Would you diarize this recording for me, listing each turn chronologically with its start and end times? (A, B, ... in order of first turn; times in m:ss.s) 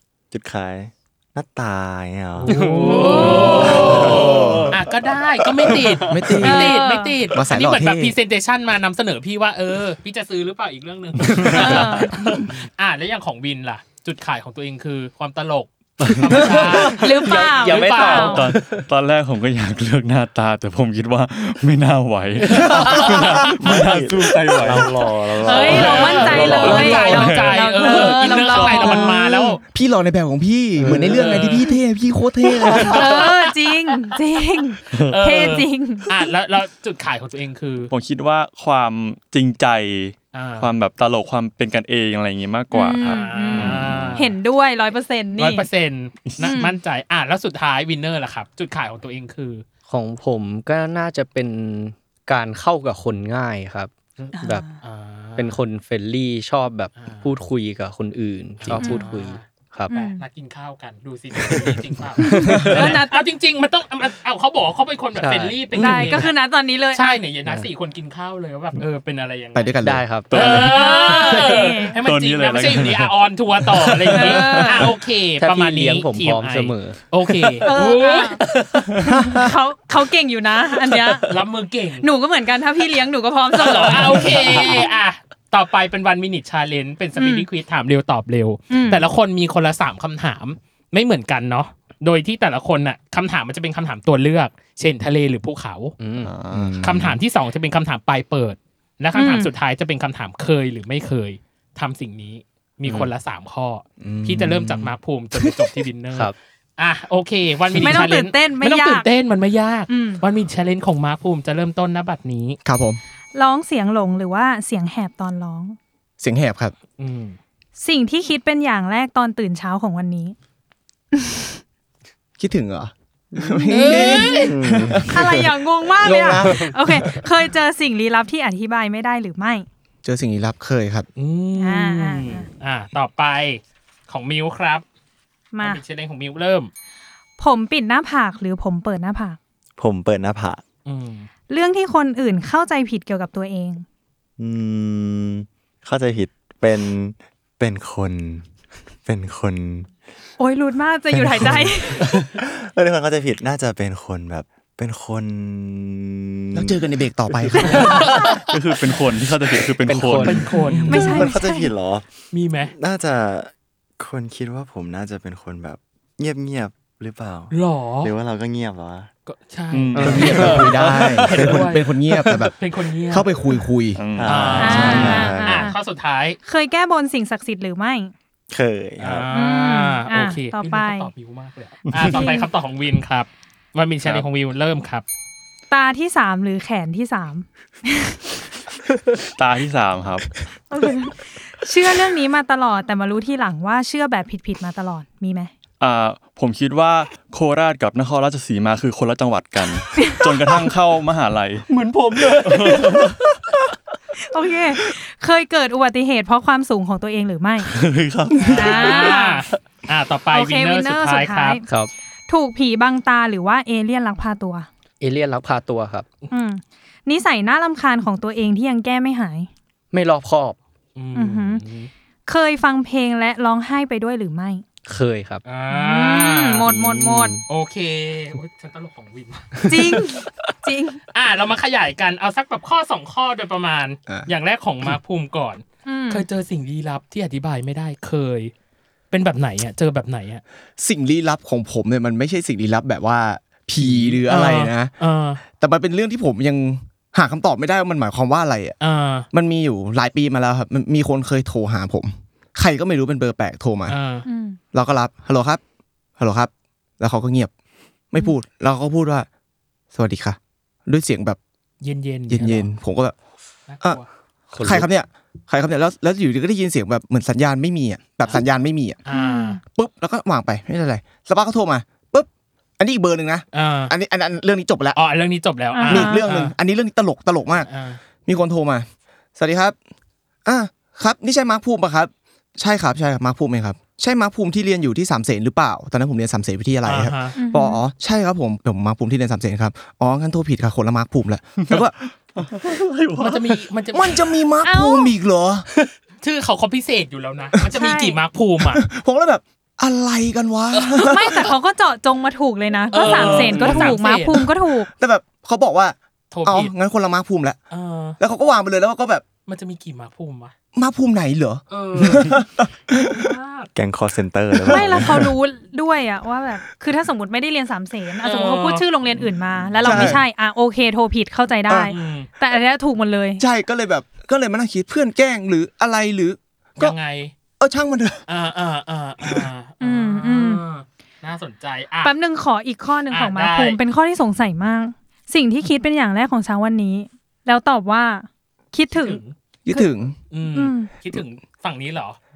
0:00.3-0:02.9 A
0:02.4-0:18.5 B
0:02.4-0:04.7 C
0:02.9-0:03.8 D
0:03.5-0:04.6 A
0:04.0-0:04.8 E
0:06.1-0:06.8 E
0:06.4-0:07.3 D
0:07.3-0:08.2 E
0:11.2-0:12.1 C
0:11.3-0:12.0 F
0:11.5-0:12.3 D
0:16.0-0:18.9 C
0:16.1-0:16.4 F
0:16.8-0:18.4 D
0:18.1-0:24.9 F
0:22.4-0:23.9 C
0:22.7-0:26.6 A
0:24.6-0:27.2 C
0:25.4-0:29.6 B
0:25.5-0:29.0 F
0:25.5-0:29.6 D
0:29.7-0:33.2 E
0:30.8-0:31.3 C
0:30.9-0:31.8 B
0:32.6-0:34.2 B
0:32.8-0:36.3 D
0:35.0-0:37.9 B
0:37.9-0:44.3 F
0:40.3-0:40.7 B
0:42.7-0:45.7 D
0:43.0-0:44.4 B
0:45.4-0:49.6 B
0:46.3-0:46.6 F
0:46.4-0:46.8 D
0:49.9-0:54.6 C
0:54.2-0:55.6 B
0:54.4-0:54.8 D
0:55.4-0:59.9 C
0:57.0-0:57.3 B
0:58.6-1:18.6 B
0:58.8-0:59.1 D
0:59.9-1:00.2 D
1:02.2-1:03.3 D
1:02.3-1:02.9 C
1:05.2-1:05.6 C
1:05.8-1:07.2 D
1:05.8-1:06.1 E
1:09.5-1:10.2 E
1:09.8-1:11.3 C
1:10.5-1:12.0 D
1:12.0-1:14.7 F
1:14.1-1:15.0 D
1:15.4-1:19.0 C
1:17.6-1:18.4 D
1:19.0-1:21.4 D
1:19.2-1:19.5 E
1:21.3-1:22.1 B
1:22.0-1:24.9 D
1:23.5-1:36.0 B
1:27.2-1:27.5 D
1:28.7-1:29.1 D
1:36.0-1:36.7 C
1:36.2-1:37.2 E
1:36.8-1:52.6 B
1:39.1-1:39.5 D
1:44.0-1:45.8 E
1:47.8-1:49.1 D
1:49.9-1:50.2 D
1:52.6-1:53.0 E
1:53.4-1:55.8 D
1:56.2-1:56.8 E
1:57.0-1:57.4 B
1:57.8-2:00.4 D
2:01.2-2:01.5 D
2:02.4-2:07.2 E
2:03.3-2:05.3 A
2:03.7-2:04.6 B
2:04.0-2:04.5 D
2:05.0-2:09.7 D
2:10.0-2:11.1 E
2:11.2-2:14.8 B
2:11.6-2:12.5 D
2:15.5-2:15.8 D
2:15.6-2:16.7 B
2:17.4-2:19.4 D
2:19.8-2:20.6 A
2:20.8-2:21.3 B
2:21.5-2:23.8 D
2:24.4-2:28.5 A
2:29.1-2:29.9 A
2:30.4-2:32.1 D
2:31.1-2:36.8 A
2:36.5-2:38.1 E
2:38.0-2:38.4 B
2:38.5-2:40.6 F
2:39.9-2:40.5 C
2:40.2-2:41.2 B
2:40.7-2:41.2 E
2:40.8-2:41.7 D
2:40.9-2:49.1 A
2:42.3-2:42.7 B
2:47.5-2:48.1 B
2:49.3-2:51.9 B
2:49.7-2:51.5 F
2:50.0-2:50.8 C
2:50.0-2:52.6 E
2:52.5-2:53.4 B
2:53.1-2:54.0 E
2:54.0-2:55.2 F
2:54.2-2:55.7 A
2:54.2-2:56.4 B
2:54.6-2:55.8 D
2:54.8-2:55.1 E
2:56.4-2:58.1 D
2:58.5-2:59.3 A
2:59.0-3:05.0 B
2:59.3-3:01.1 D
3:01.9-3:02.3 F
3:02.0-3:02.5 D
3:05.7-3:08.2 D
3:09.4-3:10.3 F
3:10.7-3:15.5 D
3:15.8-3:21.7 F
3:20.0-3:20.3 D
3:21.7-3:23.2 C
3:22.4-3:23.2 F
3:24.2-3:27.7 D
3:27.7-3:29.1 F
3:28.5-3:29.4 D
3:28.5-3:31.6 B
3:30.3-3:31.6 D
3:31.7-3:31.9 C
3:32.3-3:34.7 D
3:35.0-3:36.1 C
3:36.3-3:39.5 D
3:39.9-3:40.6 C
3:41.0-3:41.9 B
3:41.1-3:41.6 D
3:42.3-3:44.6 D
3:44.9-3:45.4 C
3:45.4-3:46.7 B
3:45.7-3:47.4 D
3:47.5-3:50.0 B
3:49.7-3:51.0 D
3:51.1-3:58.5 B
3:55.8-3:56.3 D
3:59.1-4:00.4 B
4:00.8-4:08.8 E
4:03.8-4:05.4 B
4:08.8-4:09.3 B
4:09.3-4:14.0 E
4:13.9-4:14.3 B
4:14.2-4:14.6 D
4:14.7-4:15.6 E
4:16.2-4:17.5 E
4:18.1-4:19.3 E
4:19.9-4:21.4 E
4:21.8-4:22.7 B
4:22.3-4:23.1 E
4:23.7-4:24.1 B
4:24.5-4:24.9 C
4:24.6-4:29.0 E
4:29.1-4:29.6 B
4:29.1-4:29.6 D
4:29.7-4:35.0 E
4:33.5-4:33.9 B
4:34.9-4:36.5 B
4:35.7-4:36.3 D
4:35.9-4:37.7 E
4:37.6-4:38.0 B
4:38.2-4:39.8 E
4:40.4-4:52.0 E
4:46.9-4:47.4 B
4:47.4-4:47.8 D
4:51.6-4:53.7 F
4:53.2-4:54.9 B
4:53.9-4:55.7 E
4:54.8-4:55.1 D
4:56.2-4:58.8 B
4:57.7-4:58.2 D
4:58.6-5:01.5 E
5:00.7-5:01.5 B
5:01.0-5:04.9 D
5:02.9-5:04.5 B
5:03.0-5:04.0 E
5:04.8-5:07.6 E
5:06.3-5:06.7 B
5:07.7-5:08.2 B
5:08.2-5:09.2 E
5:09.5-5:10.5 B
5:10.8-5:13.3 E
5:11.7-5:13.7 B
5:13.7-5:15.3 A
5:14.6-5:23.4 D
5:18.2-5:20.2 B
5:19.8-5:20.2 E
5:21.7-5:21.9 E
5:21.8-5:22.3 B
5:23.4-5:27.0 E
5:26.8-5:27.3 B
5:27.6-5:28.3 E
5:28.3-5:32.2 B
5:29.2-5:29.5 E
5:29.8-5:30.6 D
5:32.0-5:39.2 D
5:33.1-5:33.8 B
5:38.9-5:39.4 B
5:39.7-5:40.2 E
5:40.3-5:42.2 B
5:40.5-5:40.9 D